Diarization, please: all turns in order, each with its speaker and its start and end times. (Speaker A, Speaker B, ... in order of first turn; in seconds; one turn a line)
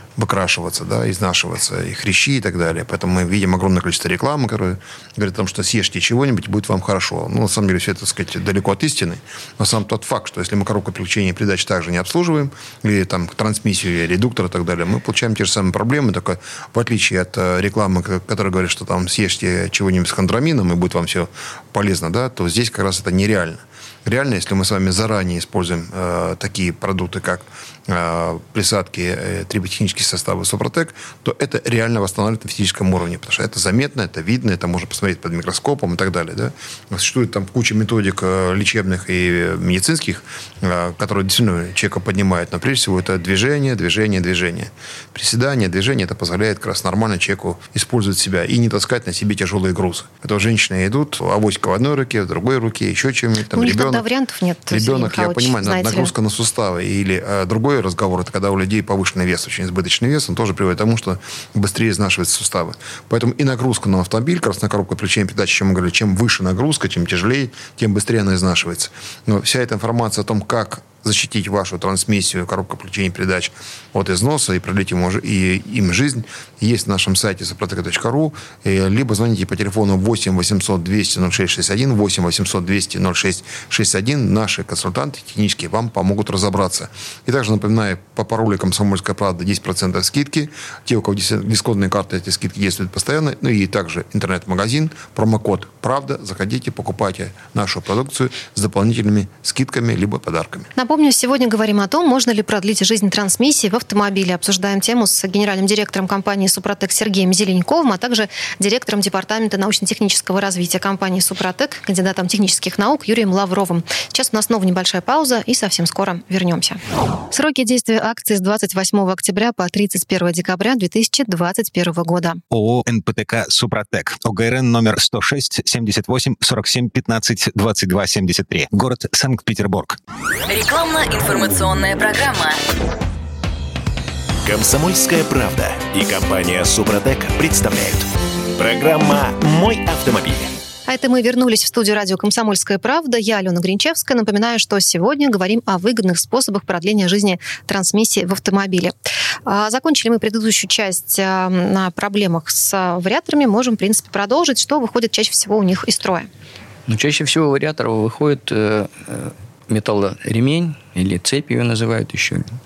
Speaker A: 0.2-54.0
Speaker B: 53.5-56.1
Speaker A: 54.7-100.7
Speaker B: 100.8-116.8
Speaker B: 117.3-122.4
Speaker C: 122.5-130.0
Speaker D: 130.5-132.6
Speaker E: 134.4-140.6
Speaker B: 140.9-148.9
Speaker B: 149.5-156.3
Speaker F: 156.9-162.5